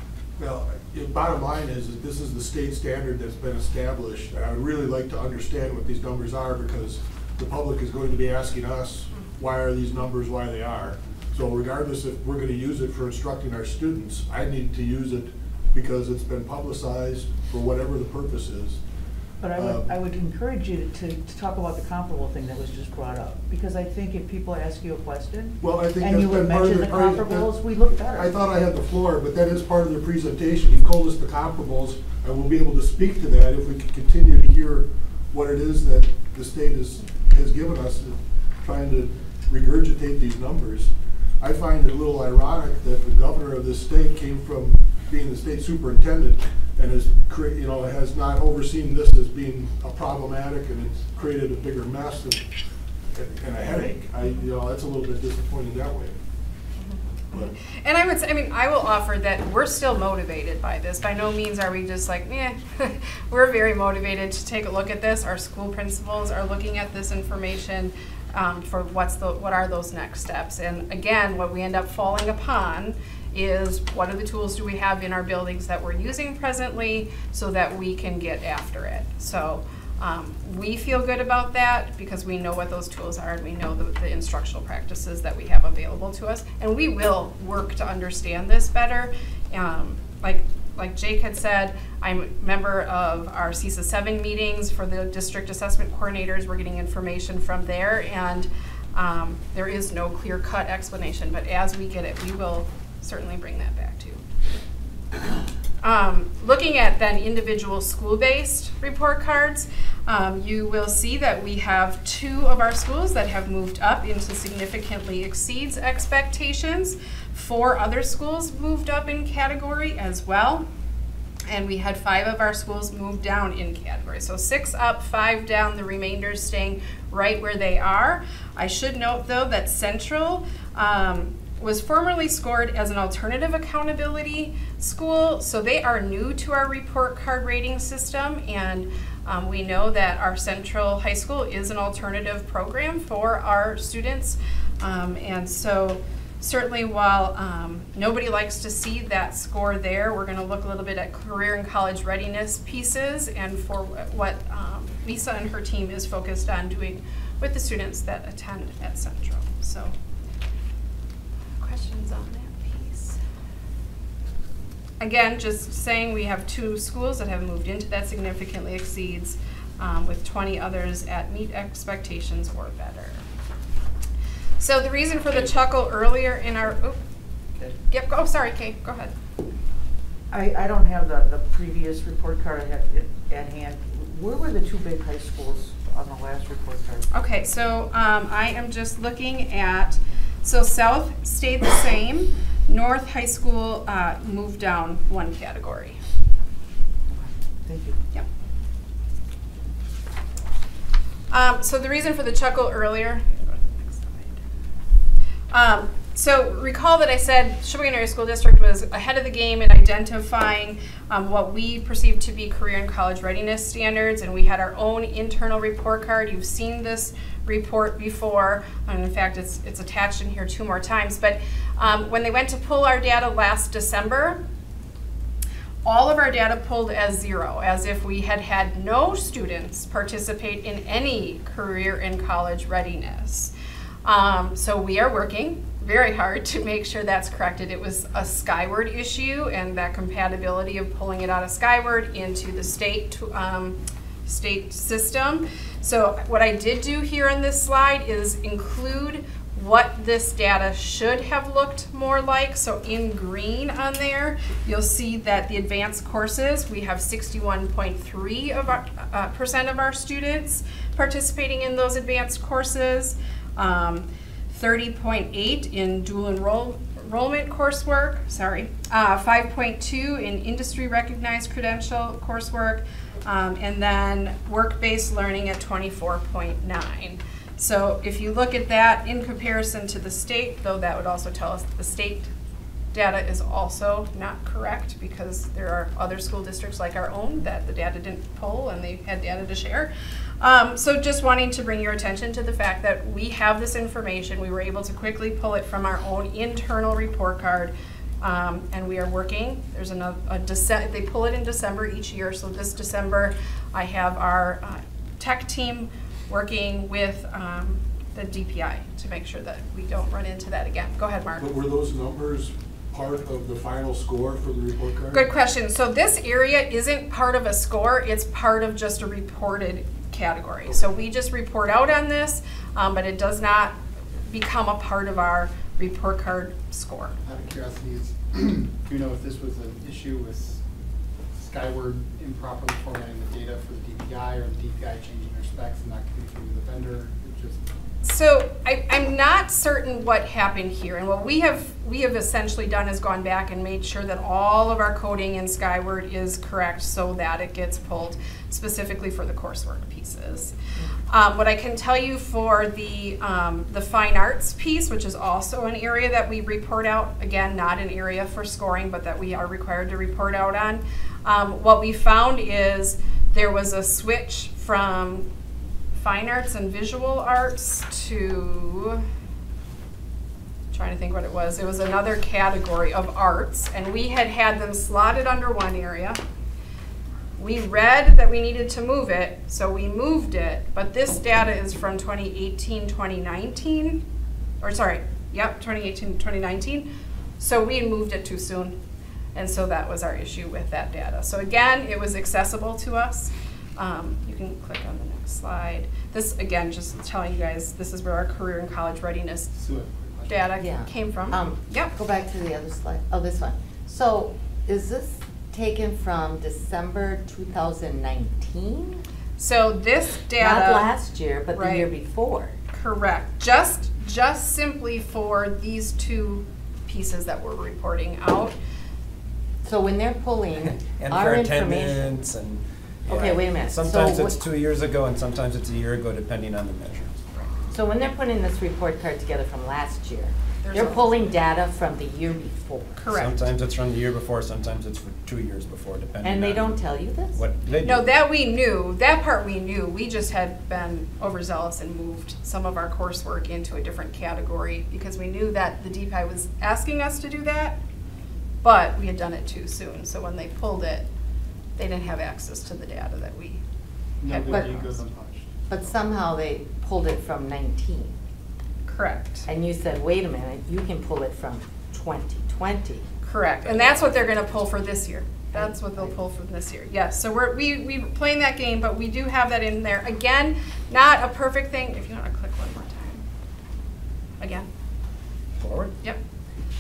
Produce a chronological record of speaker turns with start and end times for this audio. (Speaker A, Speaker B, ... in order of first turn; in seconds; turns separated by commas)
Speaker A: 0.4-18.8, Speaker B: 19.4-28.3, Speaker A: 19.6-19.9, Speaker A: 25.6-27.6, Speaker A: 28.1-52.5, Speaker A: 53.1-56.2, Speaker C: 56.8-104.2, Speaker C: 105.8-120.7, Speaker C: 121.5-159.9, Speaker C: 161.6-163.2, Speaker C: 165.0-173.2, Speaker C: 174.6-177.0, Speaker D: 175.3-175.6, Speaker C: 177.9-179.1, Speaker B: 180.3-187.1, Speaker C: 187.1-196.0, Speaker B: 197.1-198.0, Speaker C: 201.3-204.4, Speaker C: 205.5-224.4, Speaker C: 225.8-233.5, Speaker C: 234.0-282.3, Speaker C: 282.9-311.5, Speaker A: 311.4-315.3, Speaker C: 315.1-327.2, Speaker D: 327.2-330.6, Speaker D: 331.4-337.6, Speaker C: 338.0-350.6, Speaker C: 351.1-365.3, Speaker C: 365.9-369.1, Speaker C: 370.7-376.2, Speaker C: 377.4-384.1, Speaker C: 384.6-386.9, Speaker C: 387.4-388.8, Speaker C: 389.3-399.5, Speaker D: 399.5-400.5, Speaker C: 400.3-401.9, Speaker E: 400.6-409.0, Speaker C: 409.4-410.9, Speaker E: 410.4-412.6, Speaker C: 411.5-411.9, Speaker C: 412.7-418.6, Speaker E: 419.6-422.2, Speaker F: 420.9-427.2, Speaker E: 423.1-424.4, Speaker E: 427.7-433.0, Speaker C: 430.6-431.4, Speaker C: 433.0-433.4, Speaker F: 433.1-436.8, Speaker E: 436.2-437.4, Speaker F: 437.3-438.1, Speaker C: 437.8-447.8, Speaker C: 448.6-451.1, Speaker C: 451.8-453.6, Speaker D: 454.2-455.5, Speaker E: 454.3-454.9, Speaker E: 455.7-458.1, Speaker C: 458.9-459.5, Speaker E: 459.5-463.1, Speaker C: 463.2-473.2, Speaker E: 463.6-464.1, Speaker E: 465.5-466.2, Speaker C: 474.4-474.7